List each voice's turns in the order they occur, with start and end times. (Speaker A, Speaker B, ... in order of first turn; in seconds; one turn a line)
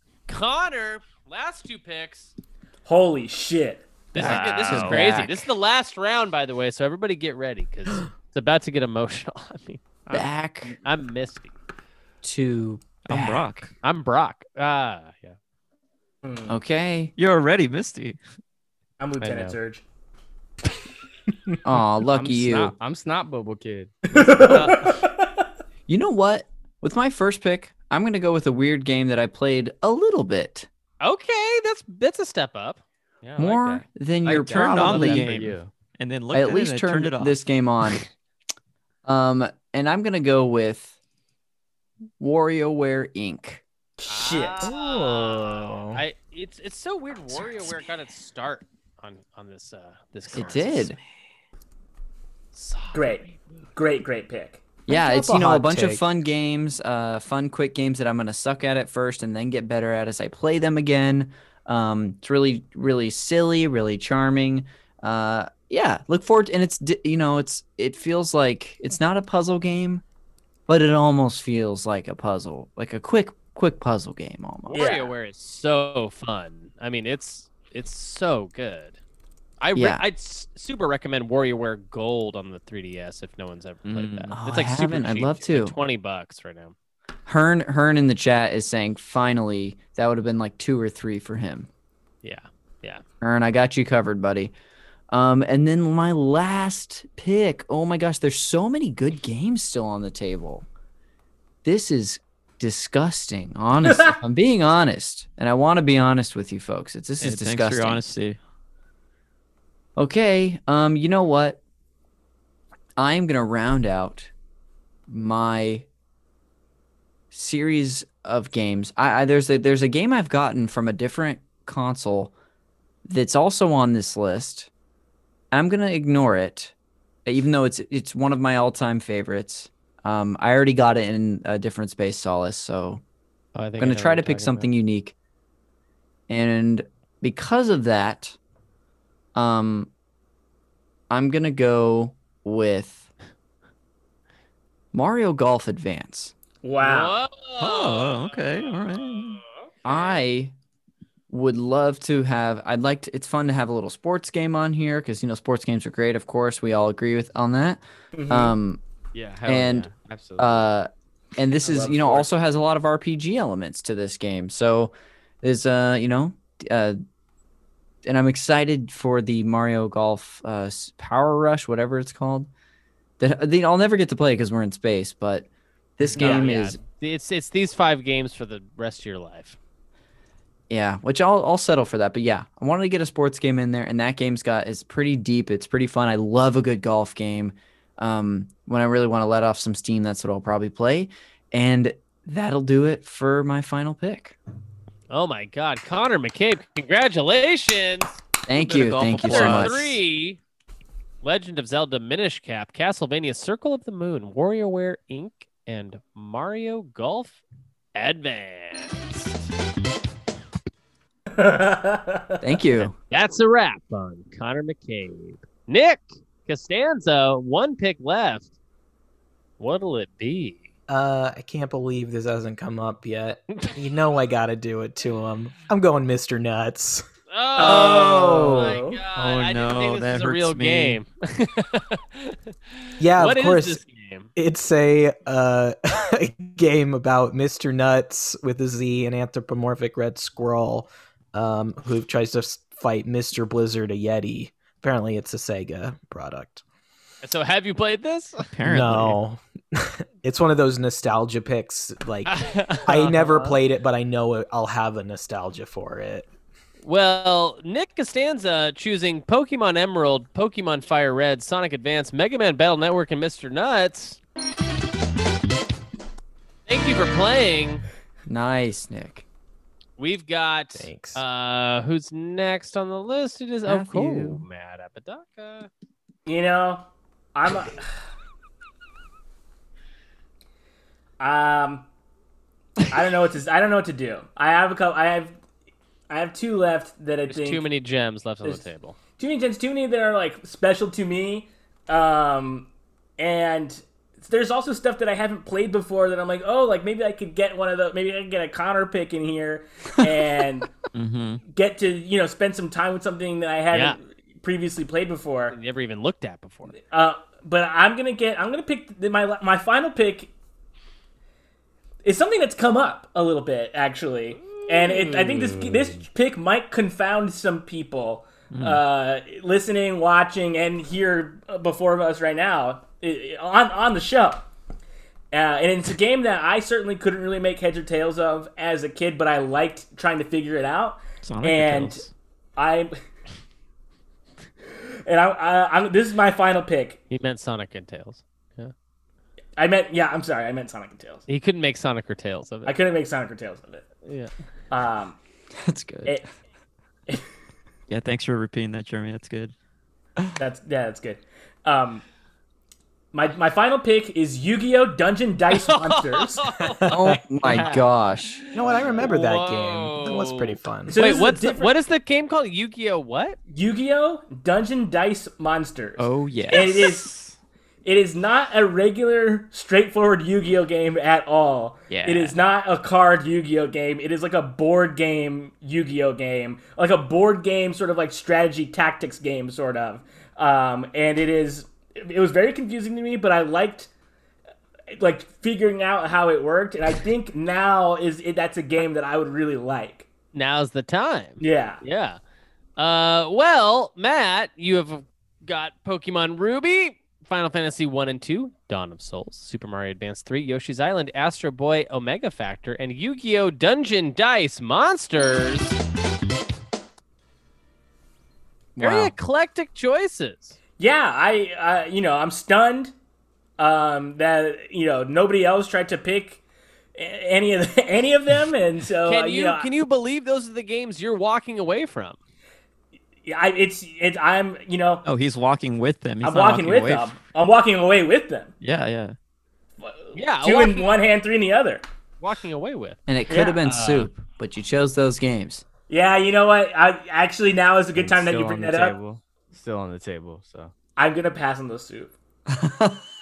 Speaker A: 0.3-2.3
Speaker B: 2.8-3.9
Speaker A: 4.1-11.5
Speaker C: 4.1-5.3
Speaker D: 4.2-5.5
Speaker D: 10.1-10.8
Speaker D: 12.2-13.6
Speaker C: 13.0-13.7
Speaker A: 13.8-15.3
Speaker B: 16.2-16.5
Speaker D: 16.5-17.1
Speaker C: 17.1-18.2
Speaker B: 19.0-19.8
Speaker E: 19.2-19.6
Speaker D: 21.6-22.7
Speaker E: 22.1-24.7
Speaker B: 24.1-25.3
Speaker D: 25.9-30.7
Speaker A: 31.0-32.8
Speaker E: 33.2-35.7
Speaker D: 33.4-35.4
Speaker C: 34.4-37.4
Speaker D: 36.3-38.0
Speaker D: 39.0-40.9
Speaker D: 42.2-43.6
Speaker B: 44.0-44.7
Speaker A: 44.1-50.9
Speaker F: 44.6-46.0
Speaker D: 50.3-51.0
Speaker A: 52.5-53.4
Speaker B: 52.9-53.2
Speaker B: 53.7-54.6
Speaker D: 54.9-70.0
Speaker F: 54.9-56.0
Speaker D: 70.7-74.9
Speaker A: 74.7-79.0
Speaker B: 74.7-75.1
Speaker A: 79.6-86.7
Speaker D: 79.7-80.0
Speaker C: 83.8-84.3
Speaker D: 84.3-85.8
Speaker D: 87.2-91.7
Speaker A: 92.2-93.0
Speaker D: 93.2-94.5
Speaker D: 95.1-100.7
Speaker D: 101.6-108.0
Speaker B: 103.8-104.1
Speaker C: 107.2-108.4
Speaker D: 110.0-111.6
Speaker D: 113.0-114.3
Speaker D: 115.1-115.8
Speaker D: 117.3-122.3
Speaker D: 123.0-124.7
Speaker D: 125.5-126.7
Speaker D: 127.2-133.0
Speaker A: 133.5-134.7
Speaker D: 133.8-135.1
Speaker D: 136.3-138.4
Speaker D: 139.3-139.9
Speaker D: 141.1-143.1
Speaker D: 144.9-146.3
Speaker B: 146.6-147.2
Speaker A: 146.8-150.1
Speaker C: 147.6-149.4
Speaker D: 149.8-150.5
Speaker D: 151.3-158.8
Speaker B: 158.1-158.5
Speaker E: 159.1-160.7
Speaker D: 159.4-167.0
Speaker B: 161.6-162.3
Speaker D: 168.0-172.5
Speaker D: 173.2-175.5
Speaker D: 176.0-176.8
Speaker A: 176.1-179.6
Speaker B: 176.1-176.5
Speaker D: 180.7-194.3
Speaker A: 195.1-198.2
Speaker D: 198.5-199.9
Speaker C: 198.6-200.0
Speaker A: 198.7-200.4
Speaker A: 201.2-207.4
Speaker A: 207.9-209.2
Speaker B: 211.3-212.5
Speaker D: 212.4-212.9
Speaker A: 212.8-218.5
Speaker A: 219.6-220.7
Speaker F: 220.9-227.0
Speaker A: 227.3-232.4
Speaker B: 227.6-229.0
Speaker D: 227.6-228.8
Speaker C: 229.2-231.0
Speaker F: 233.0-233.8
Speaker A: 233.1-234.3
Speaker F: 234.3-246.6
Speaker A: 247.2-248.5
Speaker C: 248.5-249.2
Speaker F: 248.6-256.3
Speaker A: 252.2-253.6
Speaker A: 256.8-264.2
Speaker A: 266.7-267.8
Speaker D: 268.3-269.2
Speaker A: 270.0-275.7
Speaker F: 270.7-271.2
Speaker D: 273.6-274.4
Speaker B: 276.2-277.9
Speaker B: 281.2-281.9
Speaker B: 282.9-285.4
Speaker B: 286.1-287.6
Speaker A: 287.3-288.9
Speaker B: 289.2-300.8
Speaker C: 300.9-301.4
Speaker B: 301.5-305.6
Speaker A: 303.7-304.0
Speaker A: 305.5-306.8
Speaker B: 306.9-310.3
Speaker B: 312.0-324.4
Speaker A: 314.4-315.1
Speaker E: 315.4-315.9
Speaker C: 318.5-318.8
Speaker B: 325.3-332.1
Speaker C: 331.2-332.1
Speaker B: 332.6-332.9
Speaker B: 334.7-337.0
Speaker A: 337.1-338.7
Speaker B: 339.6-341.2
Speaker A: 341.3-342.8
Speaker B: 342.6-343.9
Speaker A: 344.0-344.3
Speaker B: 344.7-345.2
Speaker D: 345.6-346.2
Speaker C: 347.9-349.5
Speaker B: 350.4-352.0
Speaker B: 353.1-356.5
Speaker A: 355.6-357.9
Speaker F: 356.8-357.1
Speaker D: 356.9-358.4
Speaker A: 358.5-363.4
Speaker F: 358.5-361.0
Speaker B: 360.9-361.7
Speaker B: 363.5-367.1
Speaker C: 366.0-367.4
Speaker B: 367.8-383.9
Speaker C: 371.9-372.4
Speaker B: 384.9-390.1
Speaker A: 390.3-392.2
Speaker B: 391.4-391.8
Speaker A: 392.8-405.8
Speaker D: 408.8-409.1
Speaker A: 408.8-410.6
Speaker B: 410.8-412.9
Speaker B: 413.6-416.4
Speaker B: 417.0-419.7
Speaker A: 419.0-422.2
Speaker B: 423.2-425.0
Speaker C: 425.0-427.1
Speaker B: 426.2-428.5
Speaker C: 428.6-429.1
Speaker B: 429.8-431.8
Speaker A: 430.1-430.9
Speaker A: 432.2-433.0
Speaker D: 433.1-435.6
Speaker B: 433.3-433.7
Speaker A: 433.6-434.0
Speaker B: 435.9-438.9
Speaker E: 437.9-440.7
Speaker B: 441.0-442.1
Speaker D: 442.5-443.1